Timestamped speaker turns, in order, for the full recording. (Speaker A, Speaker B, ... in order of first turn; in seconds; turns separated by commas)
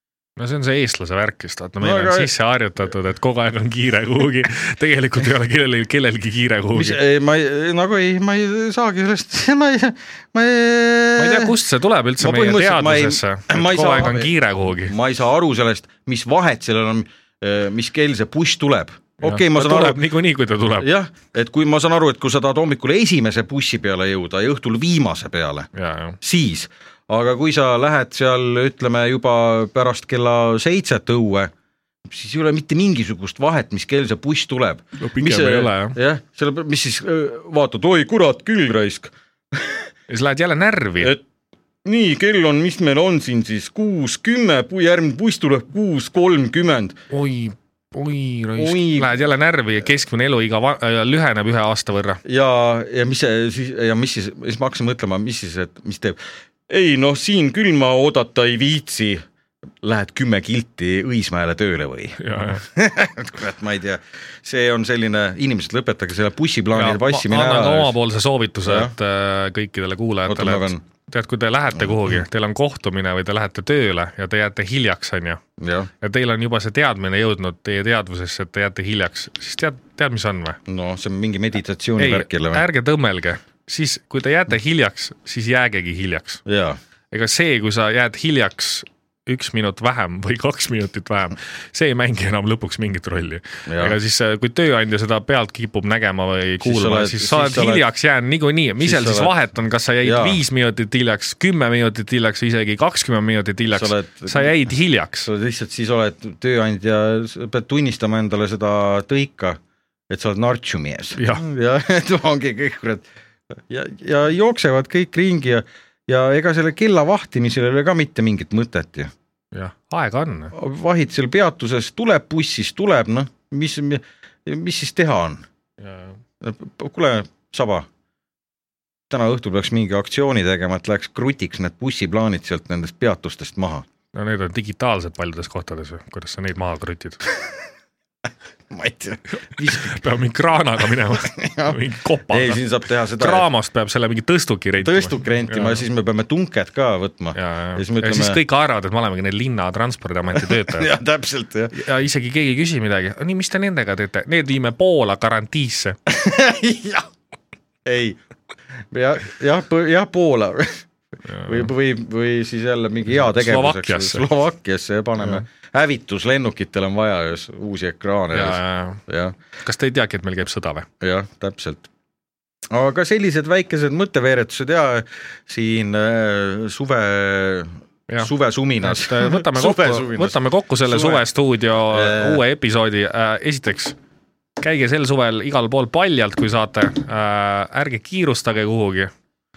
Speaker A: 0.4-7.0, Speaker B: 1.8-2.3, Speaker B: 6.7-11.6, Speaker A: 11.2-14.9, Speaker B: 12.2-20.0, Speaker A: 19.2-20.9, Speaker B: 20.8-25.7, Speaker A: 25.7-26.2, Speaker B: 26.2-31.5, Speaker B: 32.0-39.9, Speaker A: 35.0-36.0, Speaker A: 40.1-41.1, Speaker B: 41.8-47.0, Speaker A: 47.1-52.2, Speaker B: 48.6-49.1, Speaker B: 52.2-59.2, Speaker B: 59.8-67.9, Speaker A: 62.2-62.6, Speaker A: 66.8-75.4, Speaker B: 68.6-68.9, Speaker B: 70.3-70.8, Speaker B: 71.7-72.2, Speaker B: 75.6-75.9, Speaker A: 76.0-80.6, Speaker B: 80.7-82.7, Speaker A: 82.0-86.4, Speaker B: 86.5-86.8, Speaker A: 87.1-105.3, Speaker B: 93.7-94.0, Speaker B: 96.6-97.8, Speaker B: 98.8-99.3, Speaker B: 100.0-100.4, Speaker B: 103.7-104.5, Speaker B: 105.2-119.1, Speaker A: 111.2-111.4, Speaker A: 119.5-120.5, Speaker B: 120.5-125.5, Speaker A: 125.8-126.1, Speaker B: 126.4-127.9, Speaker B: 129.1-133.8, Speaker A: 134.1-137.3, Speaker B: 138.7-140.0, Speaker A: 139.6-142.6, Speaker B: 141.0-143.5, Speaker A: 143.2-145.8, Speaker B: 144.8-148.4, Speaker A: 147.3-150.9, Speaker B: 150.3-151.8, Speaker A: 151.7-155.9, Speaker B: 156.1-157.1, Speaker B: 157.8-158.2, Speaker B: 158.9-160.8, Speaker A: 161.3-161.7, Speaker B: 161.4-169.3, Speaker A: 163.2-164.3, Speaker A: 165.2-165.4, Speaker A: 168.3-169.0, Speaker A: 169.6-170.9, Speaker B: 171.0-171.9, Speaker B: 172.7-181.2, Speaker A: 178.8-183.9, Speaker B: 181.9-182.4, Speaker A: 184.6-189.1